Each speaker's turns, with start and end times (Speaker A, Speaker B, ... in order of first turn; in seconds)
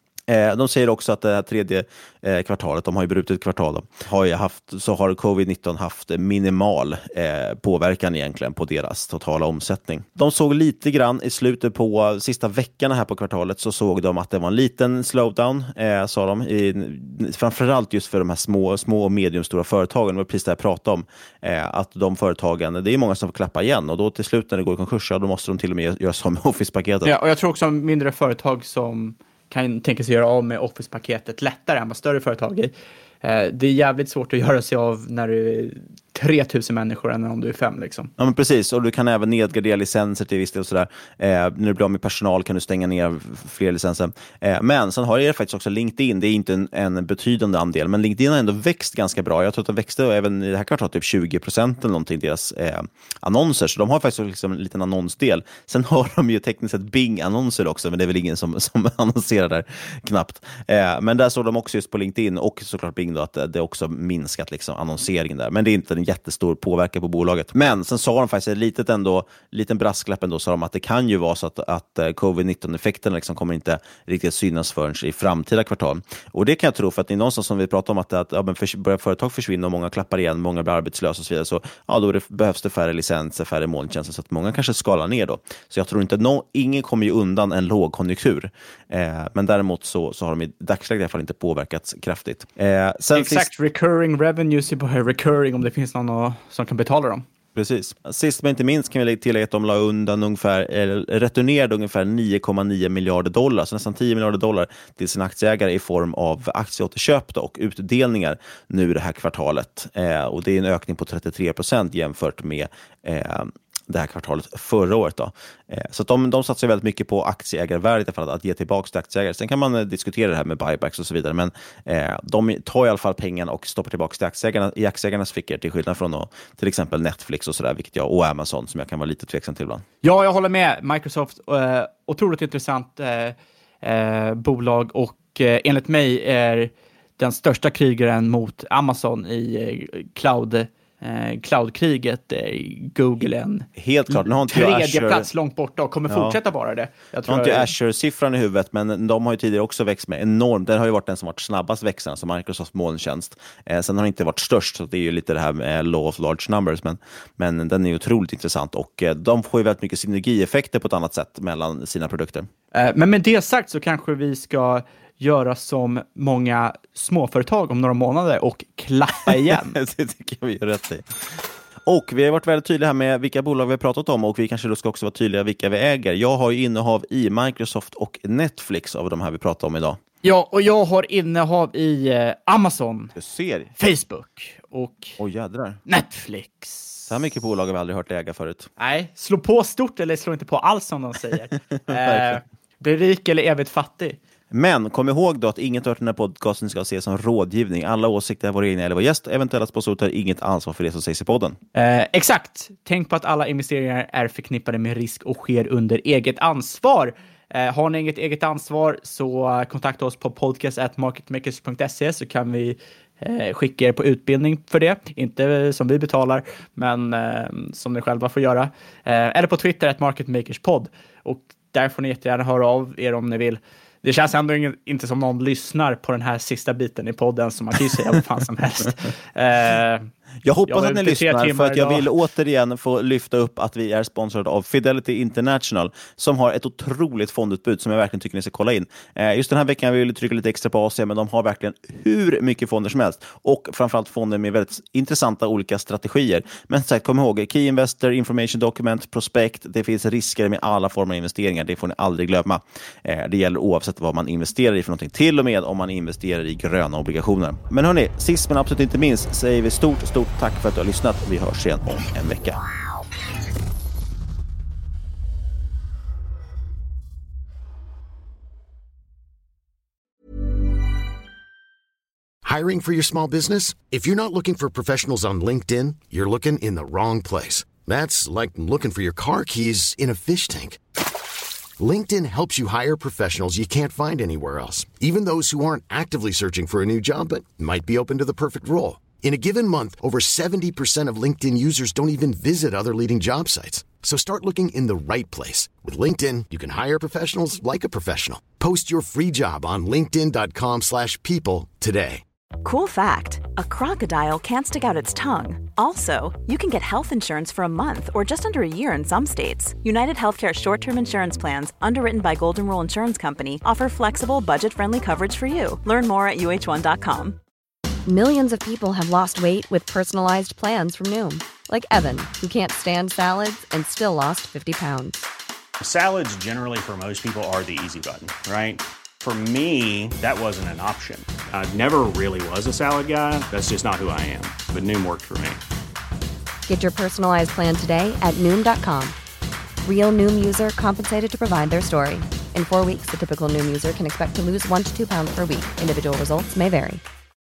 Speaker A: 0.3-27.1, 38.2-93.5, 97.5-129.8, 143.8-145.3, 146.1-146.4, 147.3-162.5, 169.3-171.1, 171.9-180.0, 183.2-183.7, 185.2-185.8, 187.1-188.7, 191.9-192.4, 194.5-201.6, 230.4-262.6
Speaker B: 27.1-32.7, 33.2-38.1, 93.1-97.2, 130.0-147.7, 162.7-169.8, 180.2-183.2, 183.8-185.2, 185.9-187.1, 188.8-194.2, 201.8-230.1, 230.7-232.1
Speaker C: 272.4-280.8, 281.8-302.2
Speaker D: 302.6-317.4
Speaker E: 318.1-325.3, 336.7-339.2, 339.9-347.0
Speaker F: 325.8-335.6